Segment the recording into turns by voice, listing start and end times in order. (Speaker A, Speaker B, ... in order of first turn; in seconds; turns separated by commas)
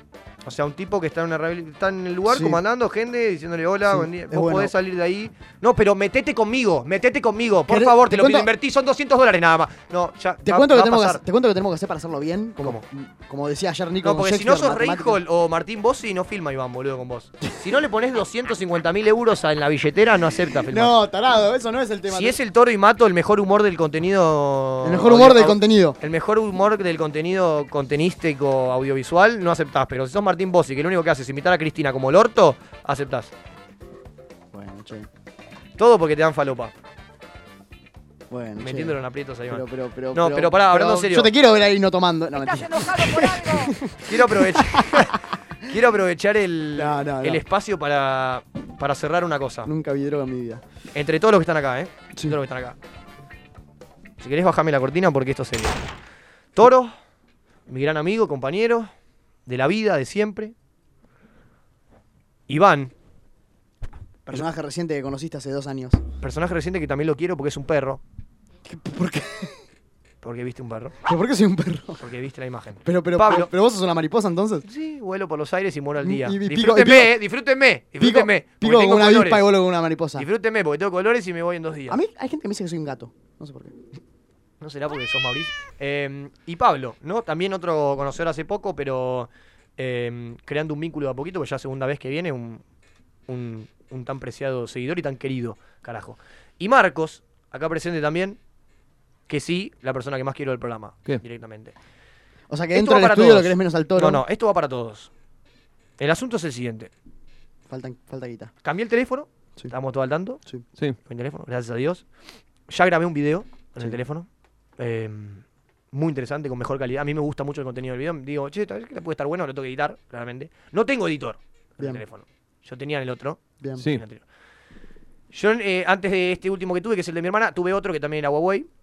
Speaker A: 0.4-11.2, Speaker B: 2.3-2.6, Speaker B: 3.9-4.7, Speaker B: 7.7-8.5, Speaker B: 10.4-15.2, Speaker A: 14.0-20.9, Speaker B: 20.7-22.4, Speaker A: 22.1-33.3, Speaker B: 24.8-25.9, Speaker B: 34.5-35.1, Speaker A: 35.8-36.7, Speaker B: 38.3-45.2, Speaker A: 38.6-41.3, Speaker A: 42.4-49.7, Speaker B: 46.8-47.4, Speaker B: 49.6-50.6, Speaker A: 50.9-52.8, Speaker A: 54.2-55.8, Speaker A: 56.5-56.9, Speaker A: 57.7-58.9, Speaker A: 59.5-60.5, Speaker A: 62.5-62.9, Speaker B: 64.3-66.0, Speaker A: 66.2-68.0, Speaker B: 68.7-69.6, Speaker A: 70.2-71.0, Speaker B: 71.0-72.0, Speaker A: 72.0-73.5, Speaker B: 72.8-74.6, Speaker A: 74.6-79.5, Speaker B: 76.0-77.2, Speaker B: 78.0-80.3, Speaker A: 80.2-82.0, Speaker B: 81.9-83.7, Speaker A: 84.6-92.6, Speaker A: 93.3-98.4, Speaker A: 99.3-101.7, Speaker B: 102.5-104.2, Speaker A: 102.7-105.1, Speaker A: 106.0-106.9, Speaker B: 107.7-108.5, Speaker A: 108.6-110.4, Speaker A: 111.0-112.0, Speaker A: 112.7-124.2, Speaker B: 123.6-123.8, Speaker A: 125.3-128.7